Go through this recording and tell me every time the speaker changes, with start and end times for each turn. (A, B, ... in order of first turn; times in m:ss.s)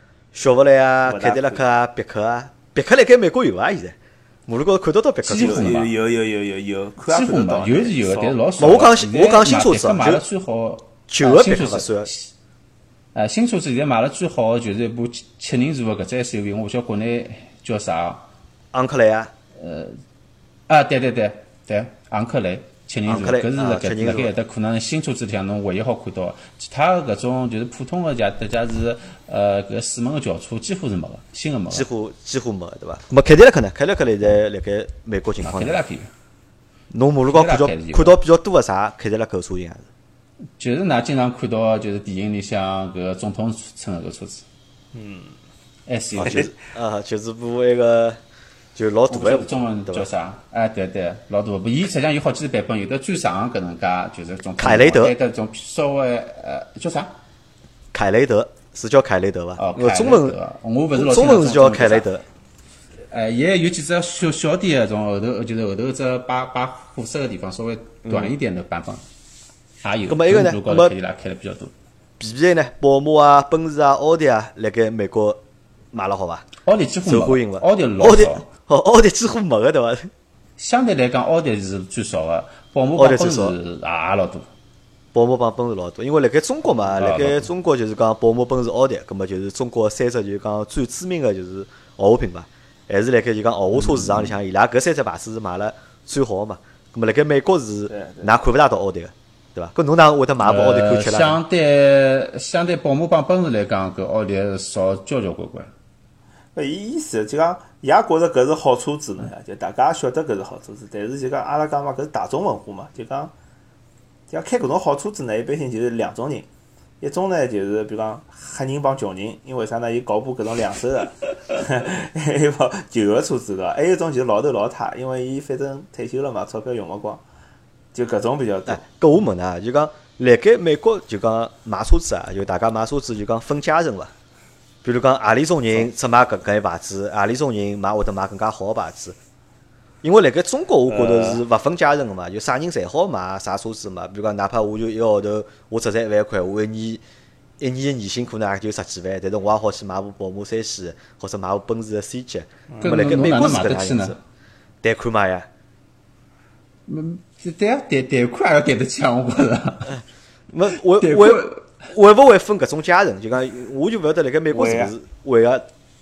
0:00.3-0:05.8 A
0:01.0-0:01.6 B
0:05.2-0:05.9 C
0:05.3-0:08.4 B
0:07.0-0:12.3 C
0:08.6-0:10.2 A
0:11.1-0:12.1 A
0:13.1-0:18.2 C
0:18.7-0:19.3 A
0:19.6-0:20.0 C
0:20.7-0:31.9 C
0:23.1-0:24.3 A
0:31.7-0:35.8 A
0:35.4-0:36.1 C
0:36.9-0:39.9 A
0:37.2-0:38.2 C
0:40.6-0:44.4 C
0:44.9-0:45.4 B
0:45.9-0:46.5 C
0:46.2-0:48.2 A
0:46.2-0:46.5 B
0:48.8-0:50.1 A
0:49.1-0:57.1 C
0:54.6-0:55.1 A
0:57.9-1:00.4 A
0:59.6-1:02.1 C
1:00.9-1:02.2 A
1:03.1-1:09.0 C
1:08.0-1:08.4 A
1:09.8-1:11.7 C
1:10.1-1:11.0 A
1:12.2-1:16.4 A
1:16.6-1:18.5 C
1:17.0-1:20.1 A
1:20.6-1:24.4 C
1:23.0-1:23.5 A
1:25.1-1:41.4 A
1:26.8-1:27.5 C
1:33.8-1:34.3 C
1:37.9-1:38.3 B
1:40.4-1:45.7 C
1:46.6-1:53.3 B
1:54.3-1:56.5 B
1:57.0-2:07.2 B
2:07.9-2:08.8 B
2:08.6-2:14.1 A
2:14.8-2:19.2 A
2:20.0-2:27.0 A
2:20.9-2:21.4 B
2:27.6-2:34.2 A
2:32.7-2:33.1 B
2:32.8-2:34.2 C
2:34.8-2:35.5 A
2:36.9-2:40.0 C
2:40.5-2:45.6 A
2:40.9-2:41.7 C
2:44.5-2:44.9 B